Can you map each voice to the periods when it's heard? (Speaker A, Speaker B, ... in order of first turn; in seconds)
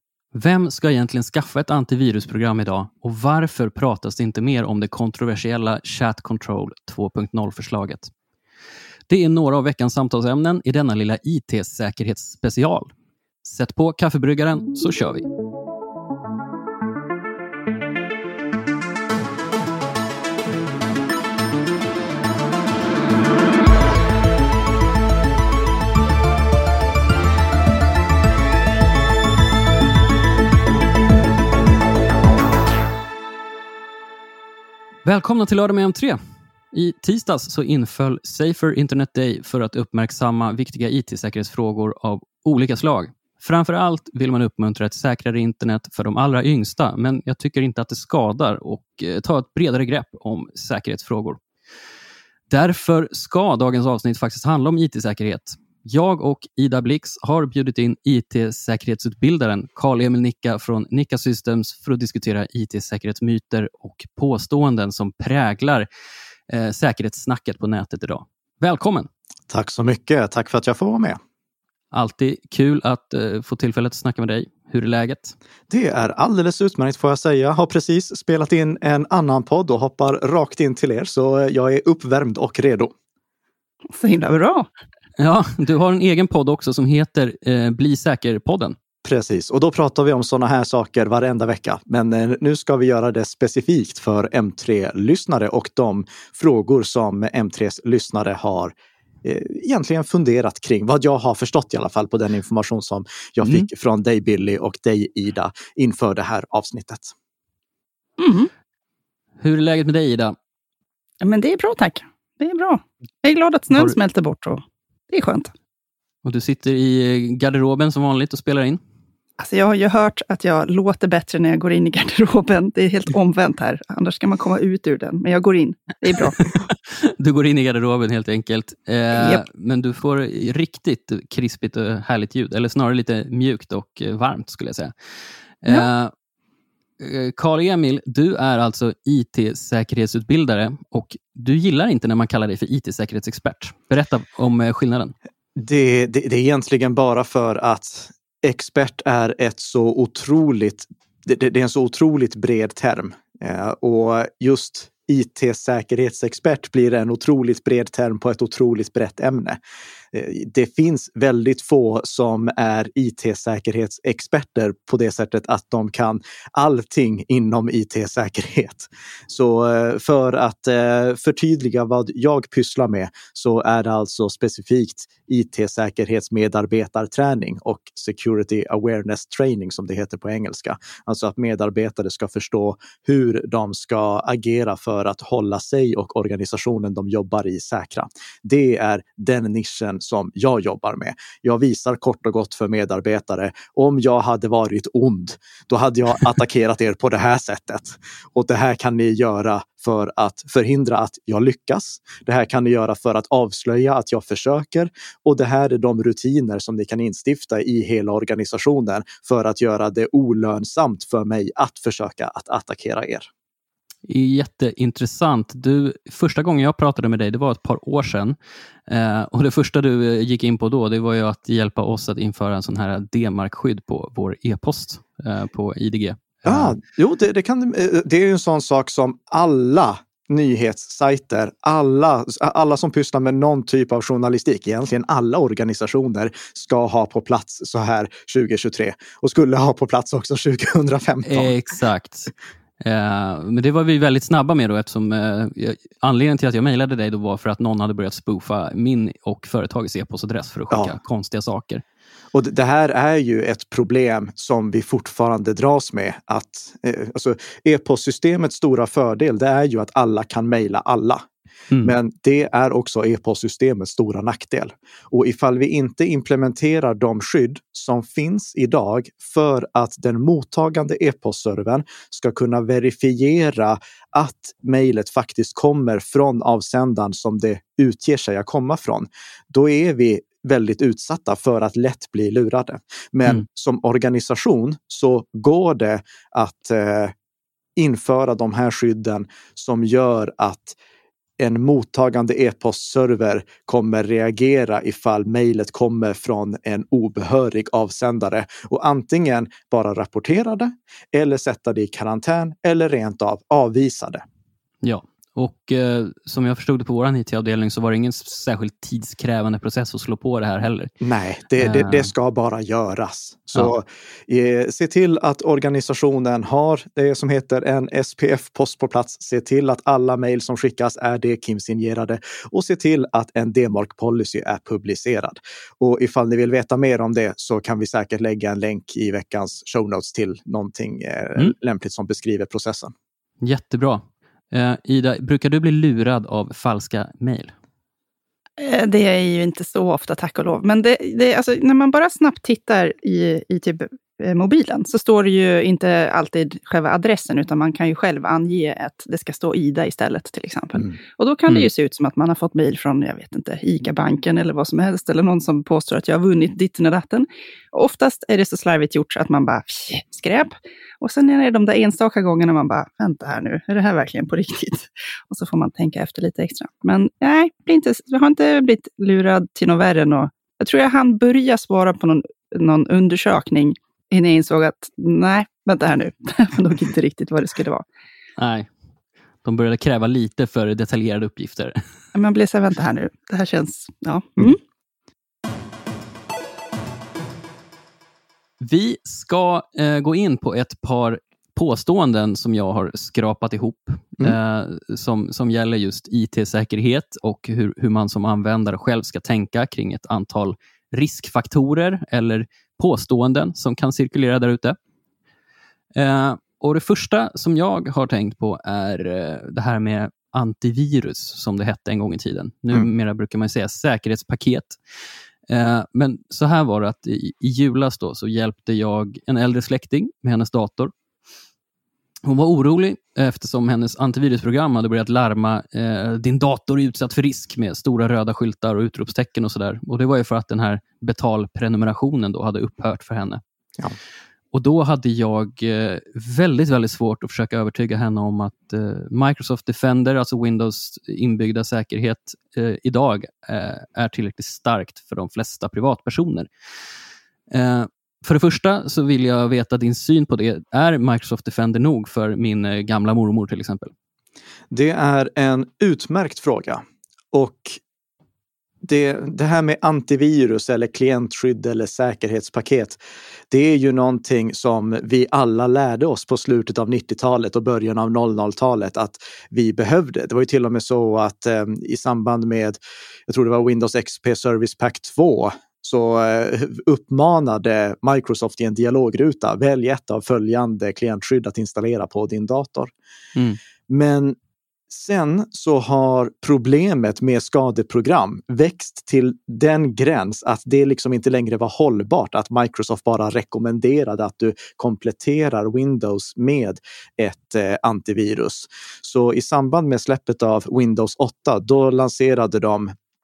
Speaker A: 0.3-8.1, 9.1-15.2, 35.0-36.2, 36.7-51.4, 52.5-65.9, 66.5-69.1, 71.9-75.3, 85.2-88.8, 109.4-110.3, 116.2-118.8, 126.4-134.9, 135.6-136.1, 137.0-145.1, 214.1-218.3, 218.9-226.8, 241.2-251.8, 261.7-261.9, 304.8-310.9, 311.6-312.1, 333.4-337.5, 378.4-378.7, 379.4-381.8, 388.6-404.8, 405.9-414.8, 415.5-420.9, 422.2-433.4, 434.5-446.5, 447.5-453.9
Speaker B: 69.5-71.2, 75.7-82.9, 89.0-107.1, 145.6-159.6, 160.1-213.3, 226.4-241.5, 252.3-261.2, 261.8-287.1, 287.8-290.8, 291.4-304.2, 311.0-332.9, 454.7-457.8, 458.8-463.0, 463.5-482.9, 483.9-484.4, 484.9-502.9
Speaker C: 83.9-84.7, 108.2-108.5, 111.2-115.5, 119.4-126.5, 129.2-129.4, 338.6-377.8, 382.1-384.6